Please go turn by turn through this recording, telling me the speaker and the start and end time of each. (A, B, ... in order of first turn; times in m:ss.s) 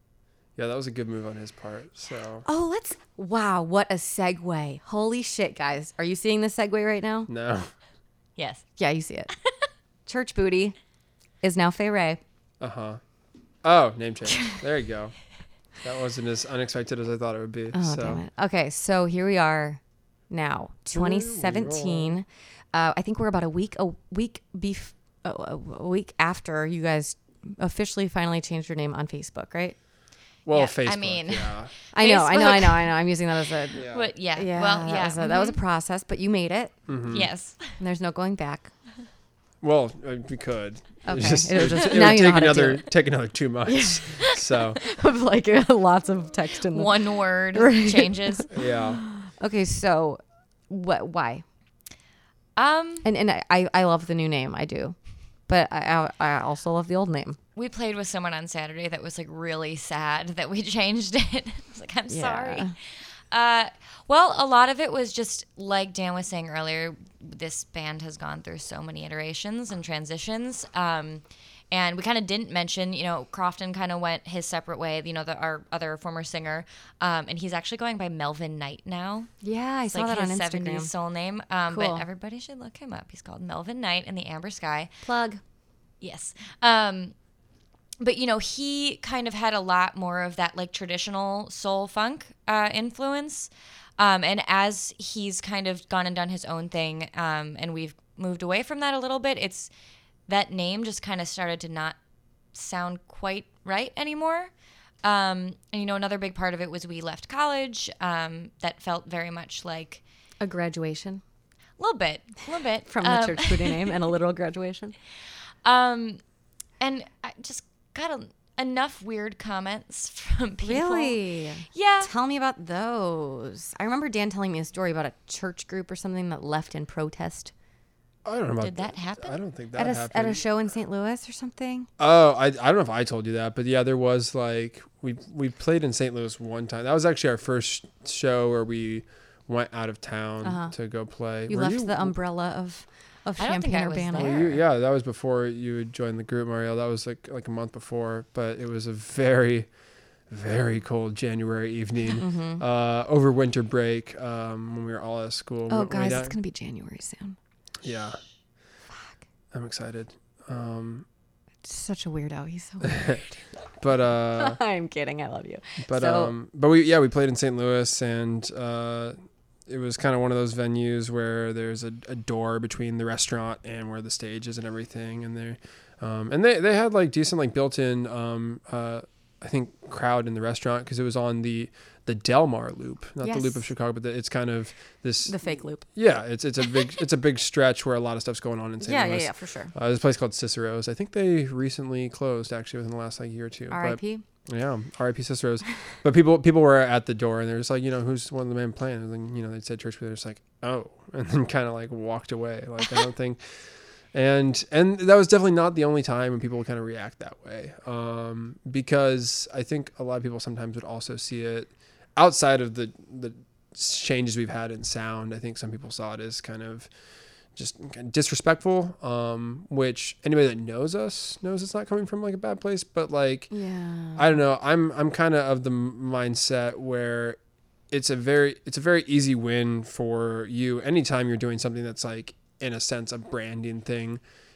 0:00.6-0:02.4 A
0:02.4-0:07.3 B
0:07.3-0:07.7 A
0:08.4-0:08.6 C
0:08.8-0:09.3 B
0:10.0-0:10.8 B
0:11.4-0:12.2 B
0:12.6-0:13.0 A
0:13.6-0:15.2 A
0:15.8-0:18.2 A
0:17.7-0:29.8 B
0:20.9-0:22.2 A
0:30.4-0:31.7 A
0:30.5-0:33.0 C
0:31.9-0:36.7 B
0:33.7-0:34.1 A
0:33.8-0:35.6 C
0:36.9-0:37.3 A
0:37.1-0:37.8 C
0:37.8-0:38.7 B
0:39.6-0:44.8 A
0:41.0-0:42.9 B
0:43.7-0:51.4 B
0:46.7-0:48.5 C
0:48.5-0:49.0 A
0:52.6-0:53.1 C
0:53.0-0:55.0 B
0:55.5-0:57.4 B
0:57.6-1:02.8 C
1:02.1-1:02.7 B
1:03.3-1:19.3 C
1:19.4-1:20.9 B
1:19.9-1:24.9 C
1:21.7-1:22.0 B
1:25.0-1:25.4 B
1:26.0-1:27.1 C
1:28.0-1:39.7 C
1:40.3-1:42.0 C
1:42.5-1:44.5 C
1:45.0-1:50.0 C
1:50.4-1:51.2 B
1:51.8-1:54.0 C
1:52.9-1:55.0 B
1:55.6-1:56.2 C
1:56.8-2:01.2 C
2:00.6-2:07.5 B
2:01.7-2:02.1 C
2:08.2-2:10.4 A
2:08.6-2:09.4 C
2:09.8-2:11.9 B
2:12.0-2:22.1 A
2:20.4-2:20.7 B
2:21.5-2:24.6 B
2:23.4-2:24.5 C
2:24.2-2:29.7 A
2:30.3-2:36.4 A
2:32.2-2:32.6 B
2:35.7-2:37.4 B
2:37.8-2:38.2 A
2:39.5-2:41.0 A
2:41.6-2:43.4 B
2:42.8-2:43.2 A
2:43.8-2:44.6 A
2:44.3-2:46.3 B
2:45.8-2:49.2 A
2:49.7-3:23.6 A
3:03.2-3:03.6 B
3:05.3-3:05.8 B
3:08.8-3:09.7 B
3:13.7-3:14.2 B
3:24.1-3:36.9 A
3:37.6-3:43.5 A
3:43.5-3:44.3 B
3:44.2-3:47.4 A
3:47.9-3:54.2 A